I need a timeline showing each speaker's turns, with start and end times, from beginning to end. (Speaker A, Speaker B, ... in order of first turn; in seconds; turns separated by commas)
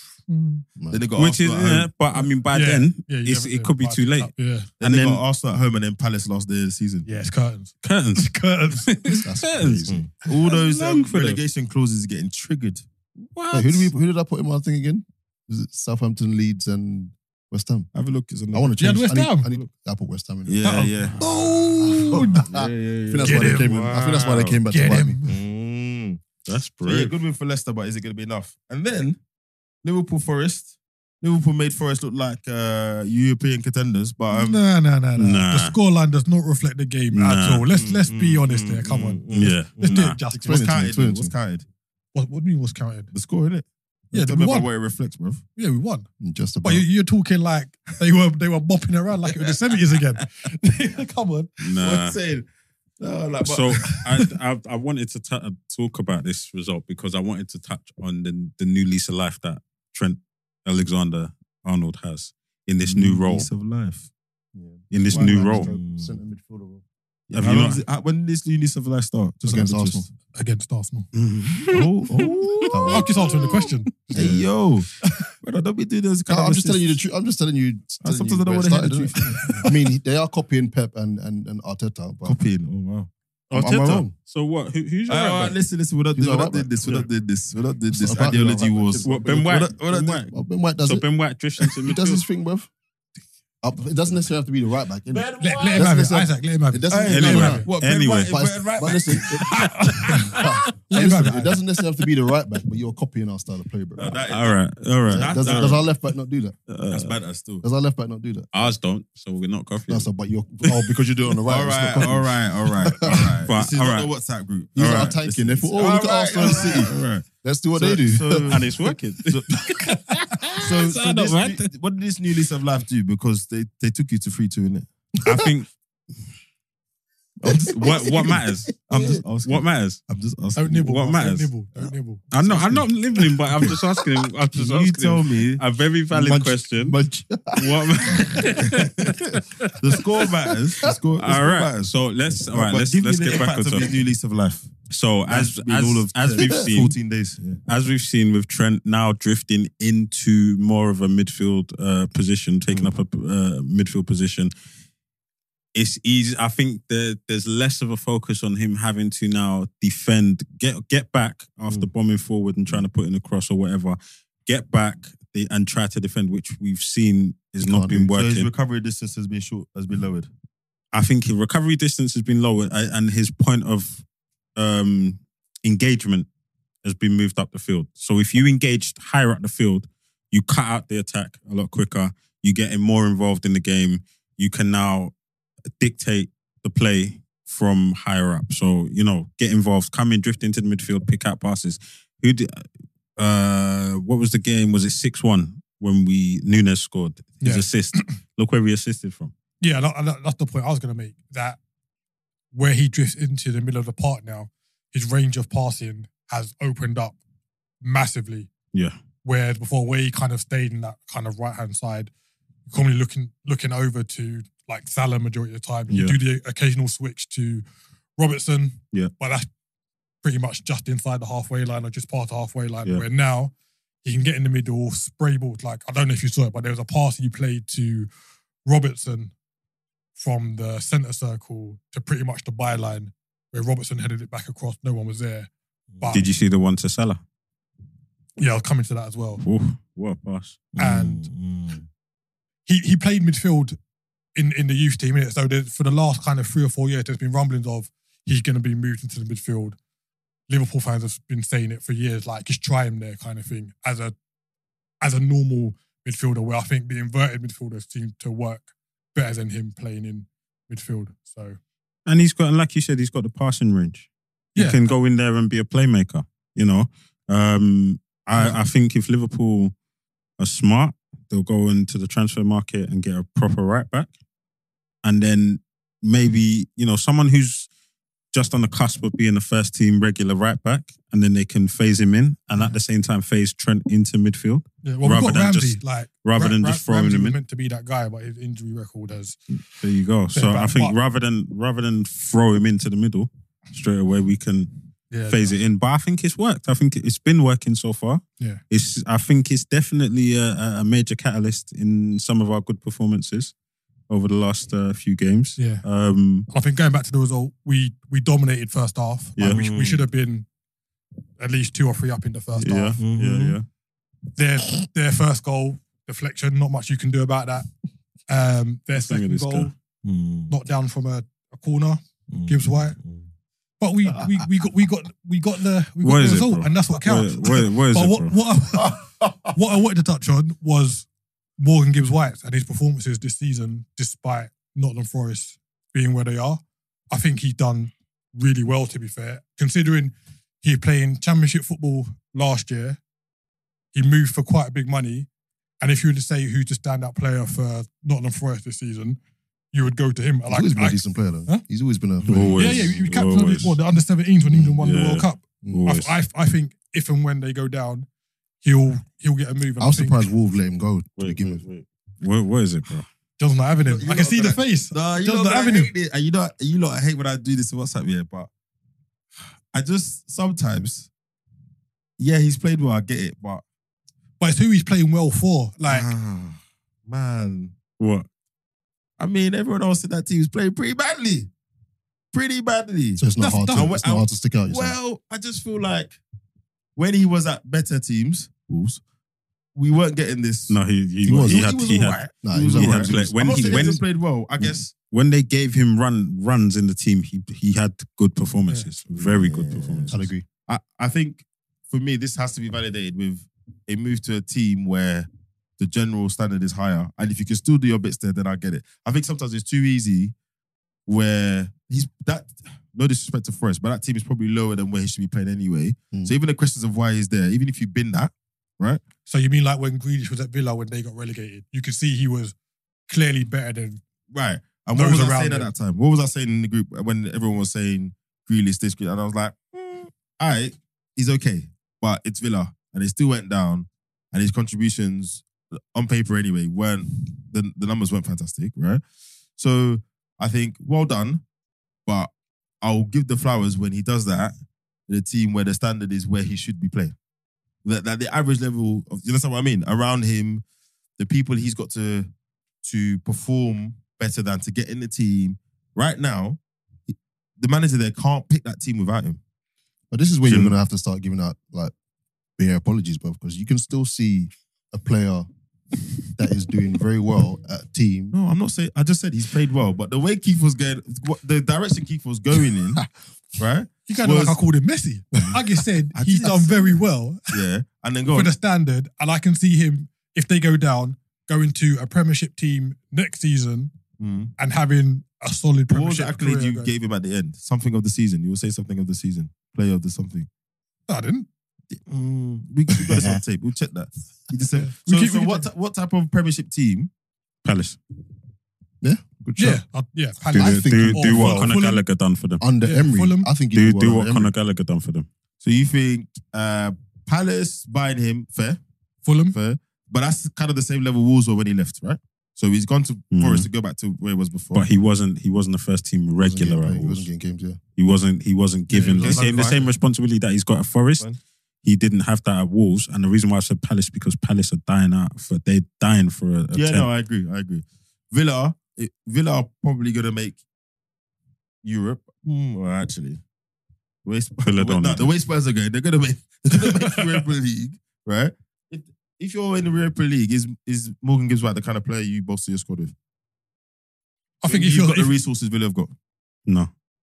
Speaker A: 0.3-0.6, Speaker B: 0.8-1.0, Speaker C: 0.9-1.9, Speaker D: 1.1-5.2, Speaker A: 2.5-4.7, Speaker C: 4.8-7.1, Speaker A: 7.0-9.3, Speaker D: 7.8-11.4, Speaker B: 9.2-10.0, Speaker C: 9.8-12.8, Speaker D: 13.3-13.9, Speaker B: 13.5-17.9, Speaker C: 17.9-18.7, Speaker B: 18.5-21.1, Speaker A: 18.8-19.5, Speaker C: 20.4-21.2, Speaker A: 20.6-22.5, Speaker B: 21.8-25.2, Speaker C: 22.1-24.0, Speaker A: 23.2-25.4, Speaker D: 23.6-24.6, Speaker C: 25.2-26.2, Speaker D: 26.4-27.1, Speaker C: 26.8-29.2, Speaker C: 29.8-34.6, Speaker A: 34.3-40.7, Speaker D: 35.1-35.8, Speaker D: 37.1-37.7, Speaker C: 37.7-41.6, Speaker D: 39.3-40.2, Speaker B: 40.4-41.3, Speaker A: 42.1-43.1, Speaker C: 43.1-45.4, Speaker A: 44.1-44.7, Speaker A: 45.5-46.1, Speaker B: 46.2-46.9, Speaker A: 46.6-51.5, Speaker D: 51.6-52.1, Speaker C: 51.7-52.5, Speaker C: 53.0-54.2, Speaker D: 53.4-63.5, Speaker C: 62.9-64.1, Speaker B: 64.5-66.8, Speaker D: 64.9-65.7, Speaker C: 65.1-66.2, Speaker C: 67.3-70.1, Speaker D: 67.3-67.8, Speaker B: 69.4-70.1, Speaker A: 70.3-71.1, Speaker D: 71.1-71.8, Speaker C: 71.7-72.8, Speaker B: 72.7-73.4, Speaker A: 72.9-74.0, Speaker B: 74.1-74.5, Speaker C: 74.1-74.9, Speaker A: 75.0-75.3, Speaker C: 75.4-77.0, Speaker B: 76.3-82.4, Speaker C: 78.0-79.7, Speaker C: 82.2-83.1, Speaker B: 83.5-84.1, Speaker D: 83.5-85.5, Speaker C: 85.1-90.2, Speaker B: 86.2-86.9, Speaker B: 87.9-89.7, Speaker D: 89.0-90.3, Speaker B: 90.3-91.0, Speaker D: 90.8-92.2, Speaker B: 91.7-92.7, Speaker B: 93.6-97.7, Speaker C: 95.1-95.9, Speaker A: 95.4-97.7, Speaker C: 96.9-100.0, Speaker D: 97.0-98.4, Speaker B: 98.2-104.1, Speaker D: 99.4-100.6, Speaker A: 99.8-101.6, Speaker C: 104.0-105.8, Speaker D: 104.2-105.8, Speaker B: 105.1-106.5, Speaker D: 106.7-107.1, Speaker C: 106.9-107.6, Speaker B: 107.6-108.5, Speaker D: 108.5-110.1, Speaker B: 109.9-113.4, Speaker C: 111.5-119.5, Speaker D: 113.1-114.1, Speaker B: 114.8-118.8, Speaker D: 114.8-115.1, Speaker D: 118.4-121.7, Speaker C: 120.5-124.9, Speaker D: 125.2-125.7, Speaker C: 127.4-130.9, Speaker D: 127.8-130.0, Speaker B: 127.8-128.4, Speaker B: 128.9-129.2, Speaker A: 130.5-132.8, Speaker D: 130.8-137.0, Speaker C: 134.5-136.9, Speaker B: 136.8-139.4, Speaker D: 137.5-139.7, Speaker C: 139.8-141.9, Speaker D: 141.2-143.9, Speaker C: 142.5-144.7, Speaker D: 144.9-146.9, Speaker C: 145.3-147.6, Speaker B: 146.4-146.7, Speaker D: 147.7-154.5, Speaker C: 152.7-152.9, Speaker D: 155.7-168.5, Speaker B: 167.6-168.1, Speaker C: 168.1-170.3, Speaker D: 170.9-174.0, Speaker D: 174.6-176.3, Speaker D: 176.8-185.1, Speaker D: 185.8-199.3, Speaker A: 197.4-198.1, Speaker A: 199.6-201.6, Speaker A: 202.5-207.2, Speaker A: 207.8-208.5, Speaker A: 209.2-212.1, Speaker A: 212.7-217.6, Speaker D: 215.9-216.2, Speaker A: 218.2-219.5, Speaker A: 220.2-223.5, Speaker A: 224.0-228.1, Speaker A: 228.6-229.3, Speaker A: 230.2-236.3, Speaker C: 235.9-236.2, Speaker D: 236.1-237.2, Speaker A: 238.4-239.4, Speaker D: 239.4-240.7, Speaker C: 240.7-241.8, Speaker A: 240.8-241.3, Speaker A: 242.7-243.8, Speaker A: 244.3-249.8, Speaker A: 250.5-254.1, Speaker A: 255.0-261.6, Speaker D: 262.1-269.7, Speaker A: 264.6-264.8, Speaker D: 270.4-274.1, Speaker D: 275.0-277.7, Speaker D: 278.3-287.4, Speaker A: 284.8-289.4, Speaker D: 289.7-294.7, Speaker A: 290.3-290.9, Speaker A: 295.1-295.5, Speaker D: 295.3-303.5, Speaker D: 304.1-306.5, Speaker A: 305.6-305.8, Speaker A: 306.5-310.4, Speaker D: 309.4-309.6, Speaker C: 309.4-310.0, Speaker A: 311.4-313.0, Speaker D: 312.6-313.6, Speaker C: 313.0-313.6, Speaker A: 314.3-317.7, Speaker A: 318.3-319.7, Speaker D: 319.0-319.7, Speaker C: 320.0-320.5, Speaker A: 320.5-323.0, Speaker C: 322.3-323.2, Speaker A: 323.8-331.1, Speaker D: 326.0-328.4, Speaker A: 331.6-343.0, Speaker A: 343.9-345.3, Speaker A: 345.8-349.2, Speaker A: 349.7-351.6, Speaker B: 350.5-353.1, Speaker D: 352.2-353.8, Speaker A: 352.6-358.1, Speaker B: 354.5-354.8, Speaker D: 354.8-356.2, Speaker A: 358.6-360.3, Speaker B: 359.8-361.6, Speaker D: 361.2-363.1, Speaker A: 363.4-365.9, Speaker C: 363.9-368.5, Speaker C: 369.7-371.1, Speaker C: 372.2-373.6, Speaker A: 374.4-376.1, Speaker C: 375.9-377.7, Speaker D: 378.0-378.2, Speaker C: 379.2-381.5, Speaker C: 382.3-386.2, Speaker B: 383.2-384.9, Speaker A: 383.4-383.9, Speaker C: 386.9-389.0, Speaker C: 389.7-390.8, Speaker D: 390.7-392.2, Speaker B: 391.2-391.8, Speaker C: 391.3-394.9, Speaker B: 392.4-394.0, Speaker D: 392.7-394.0, Speaker D: 395.1-400.1, Speaker C: 399.1-410.3, Speaker B: 400.1-400.4, Speaker C: 411.1-419.0, Speaker A: 419.2-422.5, Speaker A: 423.1-424.0, Speaker C: 424.3-439.0, Speaker A: 424.9-425.7, Speaker C: 439.6-441.4, Speaker C: 442.1-444.5, Speaker C: 445.1-447.1, Speaker C: 447.8-450.6, Speaker C: 451.2-452.3, Speaker C: 452.8-456.6, Speaker C: 457.1-459.4, Speaker B: 460.1-461.9, Speaker D: 460.4-460.7, Speaker B: 462.6-465.5, Speaker B: 466.4-468.3, Speaker C: 468.3-473.0, Speaker C: 473.6-474.6, Speaker A: 474.1-477.6, Speaker C: 476.1-478.5, Speaker A: 478.3-483.9, Speaker C: 484.2-484.5, Speaker A: 484.6-486.9, Speaker C: 485.9-490.5, Speaker A: 491.1-491.5, Speaker C: 491.9-497.1, Speaker B: 493.1-493.4, Speaker A: 494.7-495.6, Speaker D: 497.6-498.0, Speaker B: 499.0-499.8, Speaker A: 499.6-502.0, Speaker D: 500.5-502.6, Speaker B: 500.5-501.8, Speaker B: 502.6-504.5, Speaker A: 502.8-503.5, Speaker D: 503.7-505.3, Speaker C: 505.6-508.8, Speaker A: 509.2-509.6, Speaker C: 509.5-514.9, Speaker D: 513.3-513.7, Speaker D: 514.7-517.3, Speaker B: 516.4-517.8, Speaker D: 518.0-521.2, Speaker A: 518.9-519.9, Speaker C: 519.2-519.9, Speaker D: 521.8-527.1, Speaker C: 526.7-530.6, Speaker C: 531.8-533.4, Speaker C: 534.2-543.1, Speaker D: 534.6-535.3, Speaker A: 536.8-537.4, Speaker A: 544.6-545.3, Speaker C: 544.6-546.1, Speaker D: 546.6-546.9